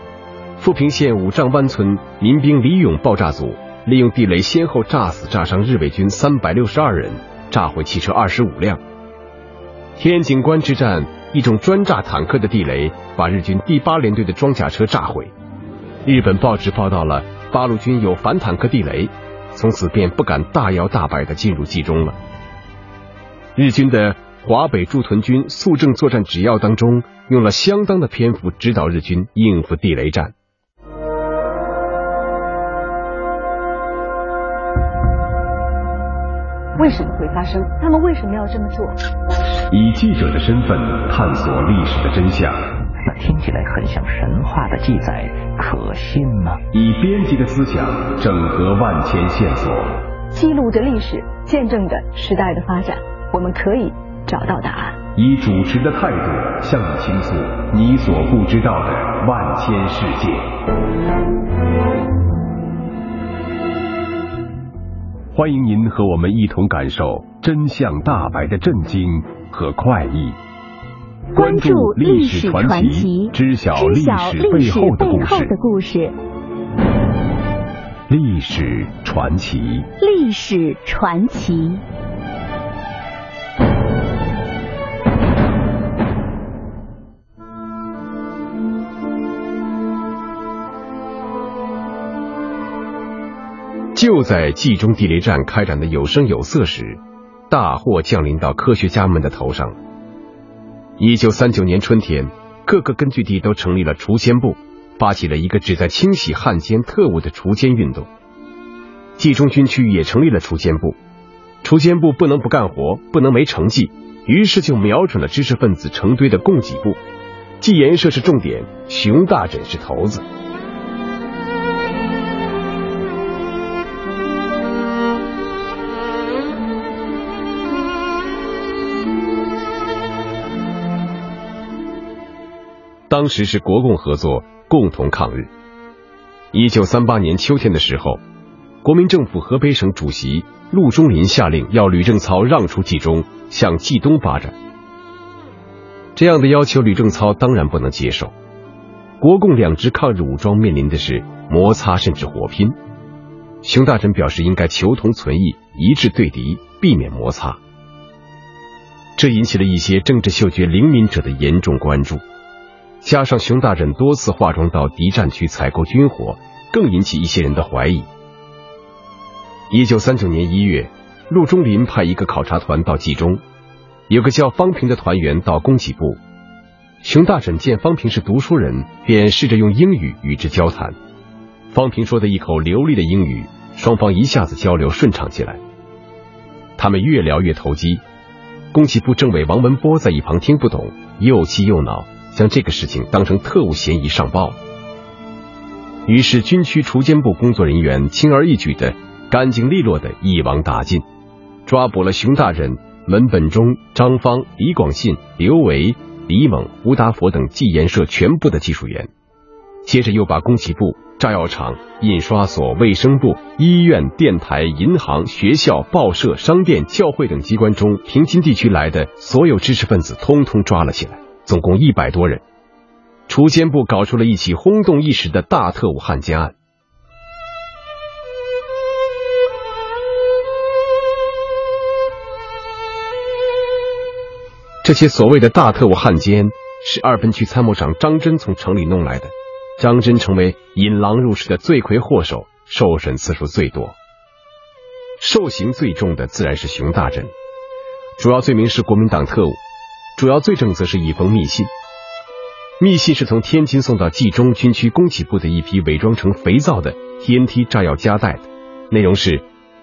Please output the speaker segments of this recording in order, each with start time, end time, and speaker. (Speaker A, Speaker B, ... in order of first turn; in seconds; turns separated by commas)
Speaker A: 0.6-8.8, Speaker A: 10.0-15.3, Speaker A: 16.0-22.2, Speaker A: 23.6-30.3, Speaker B: 36.8-39.0, Speaker A: 39.7-42.6, Speaker C: 43.0-46.6, Speaker A: 46.7-50.0, Speaker B: 50.3-55.0, Speaker A: 55.1-60.5, Speaker A: 65.3-70.4, Speaker D: 71.3-76.2, Speaker A: 71.3-75.5, Speaker A: 78.1-79.9, Speaker D: 80.0-81.8, Speaker A: 93.9-99.8, Speaker A: 101.0-108.1, Speaker A: 109.2-111.0, Speaker A: 111.6-117.0, Speaker A: 117.6-120.2, Speaker A: 133.1-135.5, Speaker A: 136.5-138.2, Speaker A: 138.8-144.6, Speaker A: 146.2-148.3, Speaker A: 149.2-152.8, Speaker A: 153.6-157.6, Speaker A: 159.2-162.2, Speaker A: 163.0-168.1, Speaker A: 169.7-173.4, Speaker A: 174.1-176.2, Speaker A: 177.0-181.0, Speaker A: 181.7-185.6, Speaker A: 186.8-188.0, Speaker A: 188.7-194.6, Speaker A: 196.1-201.0, Speaker A: 201.7-209.1, Speaker A: 209.8-222.4, Speaker A: 223.3-226.5, Speaker A: 234.8-243.9, Speaker A: 245.2-247.3, Speaker A: 248.2-249.6, Speaker A: 250.2-251.7, Speaker A: 252.8-259.4